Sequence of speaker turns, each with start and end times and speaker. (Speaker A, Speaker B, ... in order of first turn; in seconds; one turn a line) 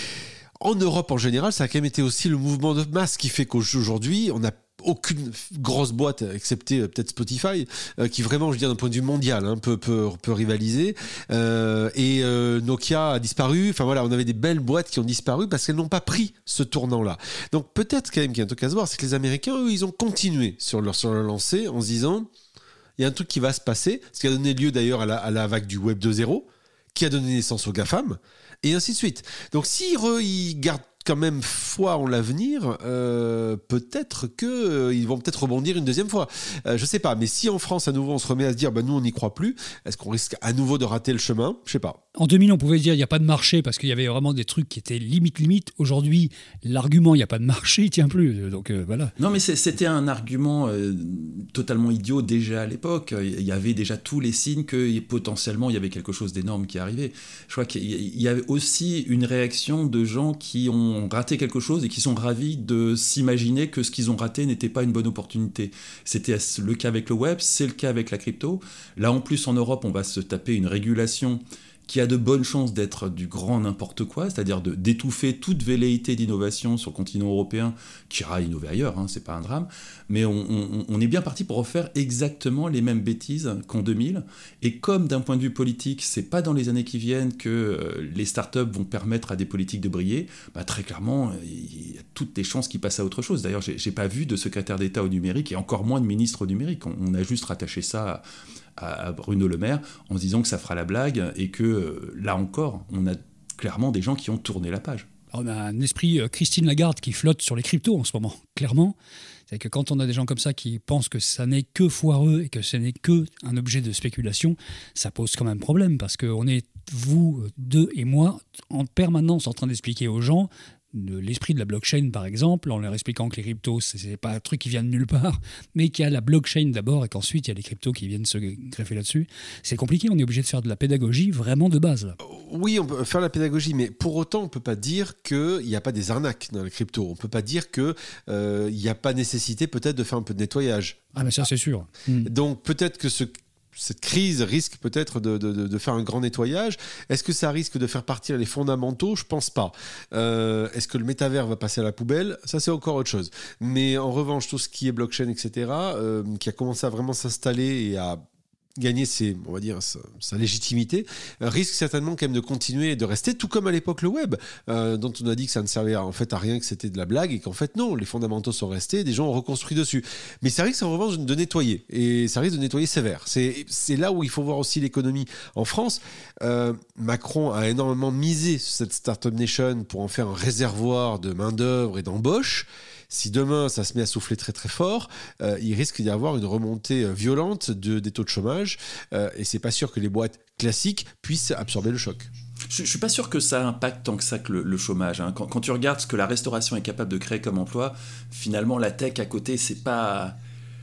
Speaker A: 0.6-22.3
Speaker A: 23.0-42.0
Speaker B: 42.1-49.1
Speaker C: 49.2-98.2
Speaker C: 98.8-105.1
Speaker B: 105.3-108.9
Speaker B: 109.5-132.2
Speaker A: 132.2-141.0
Speaker B: 141.1-142.3
Speaker A: 142.2-158.2
Speaker A: 158.8-192.3
Speaker C: 192.7-200.3